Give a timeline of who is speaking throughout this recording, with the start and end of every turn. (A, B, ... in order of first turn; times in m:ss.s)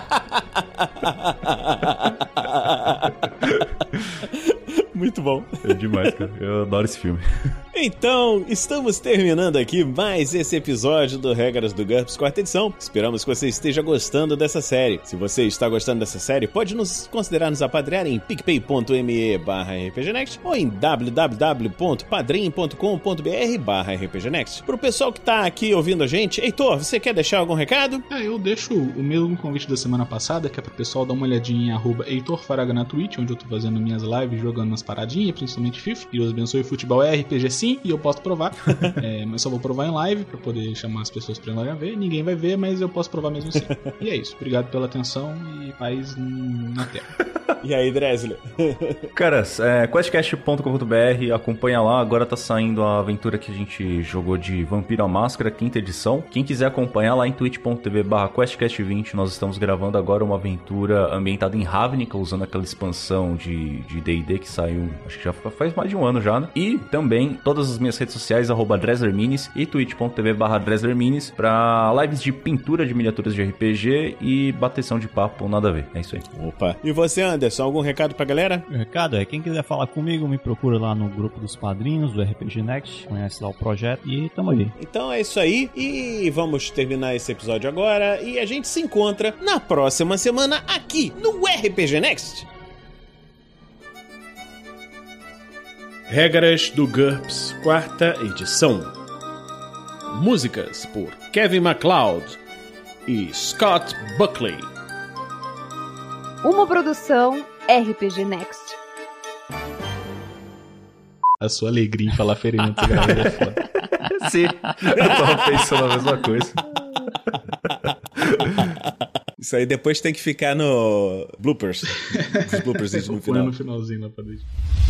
0:00.4-0:03.7 A
0:04.0-0:04.2 B
0:04.2-0:06.2 A
0:05.6-0:07.6 B
0:07.7-0:28.0 A
0:28.1-0:47.1 C
0:38.7-0:39.0 B
0:43.6-0:44.0 A
0:47.6-0:49.1 A
0:49.2-1:16.2 B
1:16.3-1:18.7 A
1:18.7-1:24.8 D
1:24.8-1:32.5 A
1:36.1-1:38.9 A
1:40.1-1:42.4 A
1:43.1-1:44.7 A
1:46.4-1:48.8 E
1:51.4-1:53.6 C
1:53.0-1:53.3 B
1:54.1-1:56.6 B
1:55.0-1:55.7 A
1:58.2-1:58.7 B
1:59.4-2:03.5 A
2:02.4-2:04.5 C